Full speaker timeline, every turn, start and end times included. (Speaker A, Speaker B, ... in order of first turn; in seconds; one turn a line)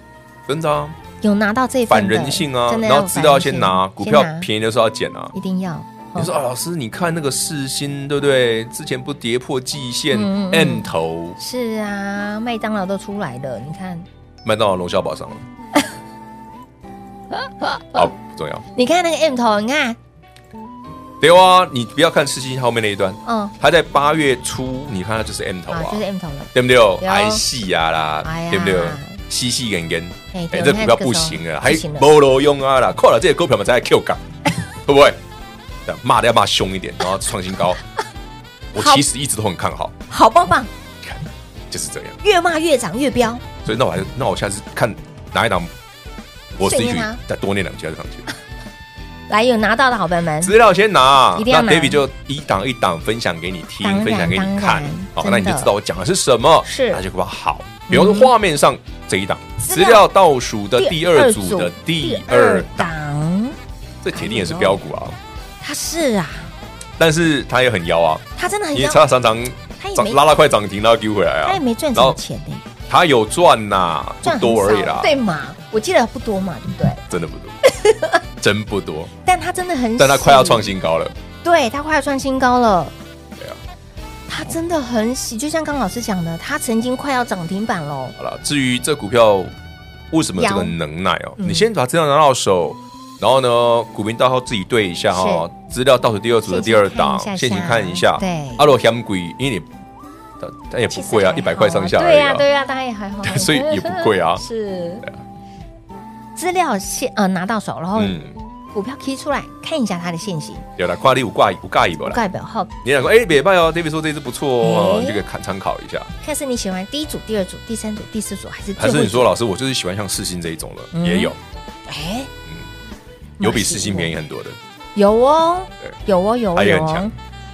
Speaker A: 0.5-1.0
Speaker B: 1.2-4.5
Speaker A: 1.9-5.3
Speaker B: 5.3-6.3
Speaker A: 6.2-11.4
Speaker B: 10.1-14.1
Speaker A: 14.4-15.4
Speaker B: 17.4-18.0
Speaker A: 17.9-18.6
Speaker B: 18.7-20.0
Speaker A: 21.2-34.2
Speaker B: 23.2-23.5
Speaker B: 25.7-27.4
Speaker B: 28.2-29.2
Speaker B: 30.3-32.1
Speaker A: 34.8-35.2
Speaker A: 35.9-37.8
Speaker A: 38.7-40.0
Speaker B: 38.8-39.0
Speaker B: 40.1-40.7
Speaker A: 41.0-42.2
Speaker B: 42.2-43.4
Speaker A: 43.6-45.7
Speaker A: 46.6-48.3
Speaker B: 46.6-47.2
Speaker B: 49.3-50.5
Speaker A: 50.4-62.9
Speaker B: 51.4-52.0
Speaker B: 53.8-55.7
Speaker B: 56.6-57.0
Speaker B: 57.9-58.3
Speaker B: 59.6-60.0
Speaker B: 60.8-63.6
Speaker A: 64.0-65.2
Speaker B: 64.1-64.8
Speaker B: 65.6-66.5
Speaker A: 67.0-72.2
Speaker B: 68.4-69.0
Speaker B: 69.8-70.2
Speaker B: 71.5-72.7
Speaker A: 72.9-75.2
Speaker B: 74.2-77.0
Speaker A: 77.1-77.6
Speaker B: 77.7-78.2
Speaker A: 78.4-79.1
Speaker B: 79.2-80.7
Speaker A: 80.0-81.2
Speaker B: 81.4-82.9
Speaker B: 84.3-88.2
Speaker A: 88.2-89.5
Speaker A: 90.1-99.7
Speaker B: 90.4-90.8
Speaker B: 91.4-91.7
Speaker B: 95.1-95.5
Speaker B: 96.5-98.7
Speaker A: 100.4-102.5
Speaker B: 100.9-105.1
Speaker A: 103.2-104.4
Speaker B: 106.4-108.2
Speaker A: 108.0-108.4
Speaker B: 108.7-110.7
Speaker A: 110.8-112.2
Speaker B: 112.0-112.7
Speaker A: 112.8-116.1
Speaker B: 114.6-115.2
Speaker B: 116.2-119.3
Speaker A: 118.8-121.4
Speaker B: 120.9-121.3
Speaker B: 121.9-122.3
Speaker B: 123.4-124.1
Speaker A: 123.4-124.6
Speaker B: 125.0-127.1
Speaker A: 126.5-127.1